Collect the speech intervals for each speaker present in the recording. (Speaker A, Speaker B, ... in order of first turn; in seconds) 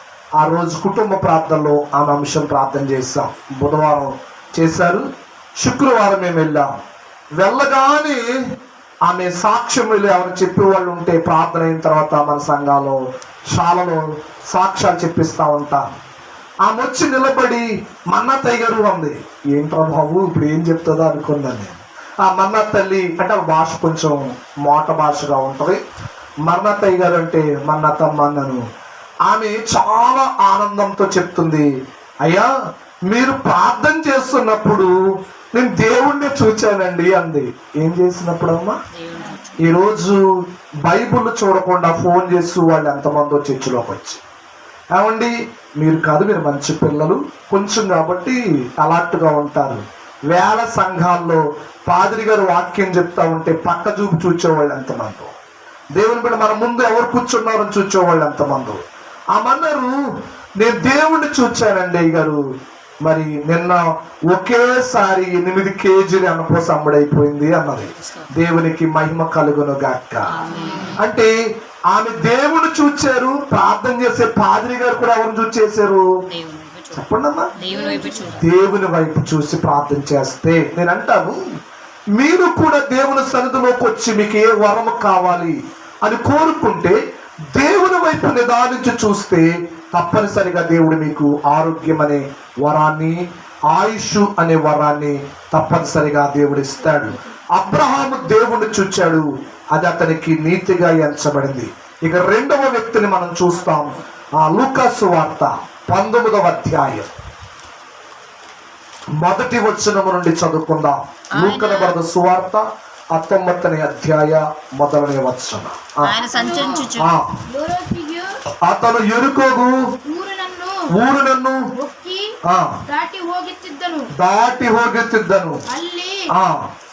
Speaker A: 0.4-5.0, 5.6-6.7, 7.4-8.4, 9.1-16.0, 16.6-25.8, 26.4-28.6, 29.3-31.7, 32.2-32.5, 33.1-34.9, 35.5-38.8, 39.6-44.2, 44.9-55.3, 56.0-58.8, 59.3-60.0, 60.6-62.4, 63.0-70.4, 71.0-76.0, 76.9-77.5, 78.4-81.3, 82.2-87.0, 87.5-107.1, 109.2-116.2, 117.0-117.4, 118.6-119.8, 120.9-121.6, 122.5-122.8, 124.2-125.6, 126.3-126.7
Speaker B: 38.9-39.7, 67.9-68.3, 70.3-71.0, 76.3-78.5, 103.7-104.0, 111.3-112.0, 116.0-117.1
Speaker C: 77.7-78.2, 116.3-116.9, 117.5-118.3, 120.1-120.8, 121.8-122.3, 122.9-124.1, 125.7-126.3